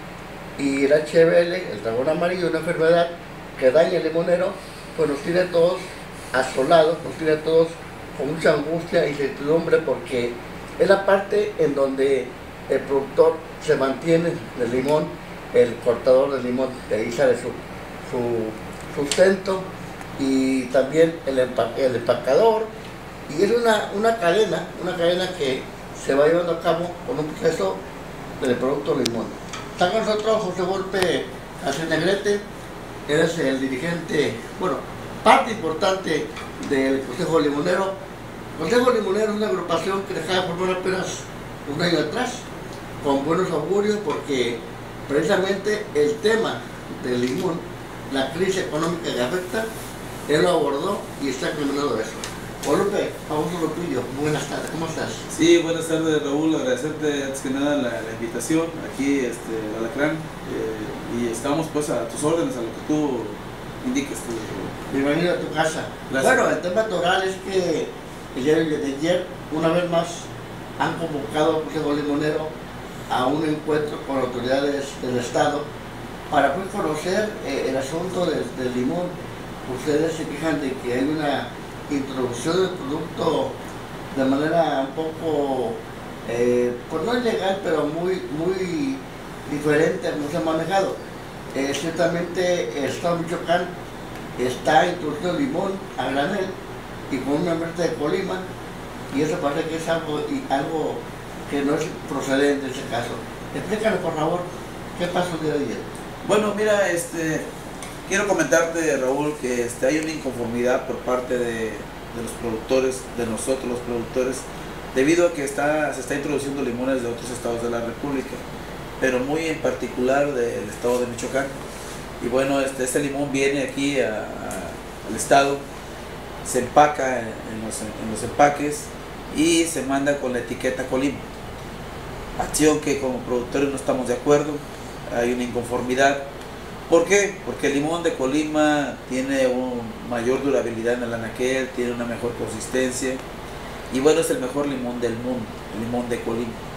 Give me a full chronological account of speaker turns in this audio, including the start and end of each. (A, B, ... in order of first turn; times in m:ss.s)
0:00.6-0:19.6 A
0:20.2-0:22.7 A
0:23.3-0:27.8 A
0:28.4-0:32.4 A
0:33.1-0:37.9 A
0:38.6-0:42.4 A
0:43.0-0:49.7 A
0:50.3-0:55.2 A
0:55.3-1:04.7 B
1:04.9-1:10.3 A
1:06.1-1:06.5 B
1:10.8-1:12.5 A
1:13.1-1:15.7 A
1:16.3-1:19.1 A
1:19.7-1:23.6 A
1:24.1-1:31.0 A
1:31.5-1:33.7 A
1:34.4-1:36.5 A
1:37.1-1:38.4 A
1:39.1-1:45.8 A
1:46.2-1:47.5 B
1:48.1-1:58.4 B
1:59.0-2:01.5 B
2:02.2-2:05.6 B
2:06.4-2:11.2 B
2:12.4-2:16.2 B
2:16.9-2:23.2 B
2:23.9-2:26.6 B